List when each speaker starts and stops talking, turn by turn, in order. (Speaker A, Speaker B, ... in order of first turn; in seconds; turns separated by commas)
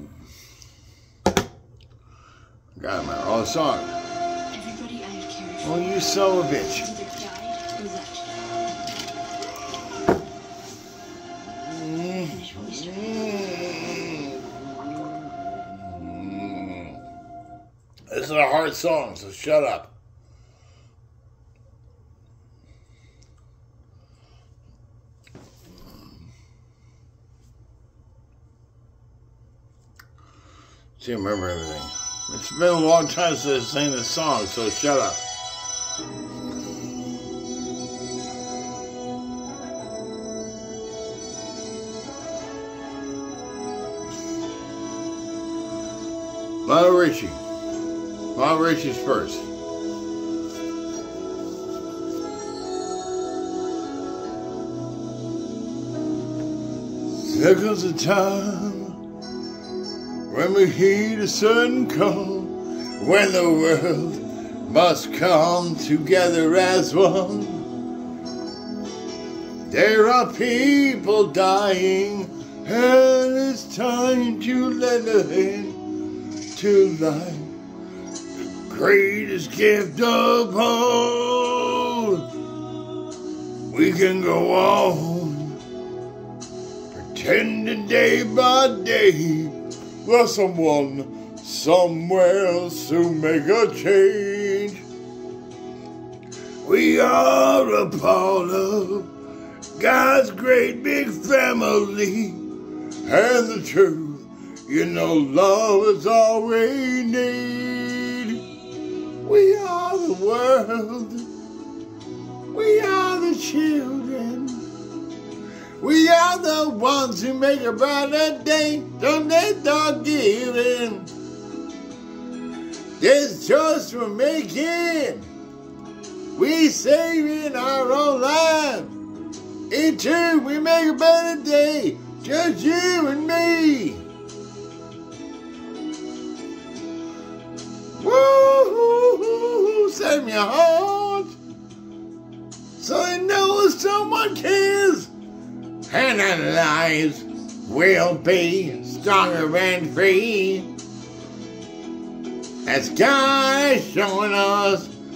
Speaker A: 2.7-3.9, Speaker B: 4.5-5.6, Speaker A: 5.6-6.9, Speaker B: 6.9-8.3, Speaker A: 11.7-14.3, Speaker B: 12.5-12.9, Speaker A: 15.8-17.0, Speaker A: 18.1-19.9, Speaker A: 31.0-35.2, Speaker A: 46.6-47.4, Speaker A: 48.3-49.4, Speaker A: 57.1-59.0, Speaker A: 60.3-67.7, Speaker A: 69.7-75.8, Speaker A: 76.5-77.5, Speaker A: 78.6-82.2, Speaker A: 83.7-85.6, Speaker A: 86.9-94.8, Speaker A: 96.6-99.1, Speaker A: 99.8-102.4, Speaker A: 103.0-108.4, Speaker A: 109.2-111.3, Speaker A: 112.5-114.6, Speaker A: 115.8-121.1, Speaker A: 123.0-125.2, Speaker A: 126.3-128.9, Speaker A: 129.7-134.0, Speaker A: 138.0-141.3, Speaker A: 142.8-145.1, Speaker A: 145.9-150.7, Speaker A: 152.6-154.9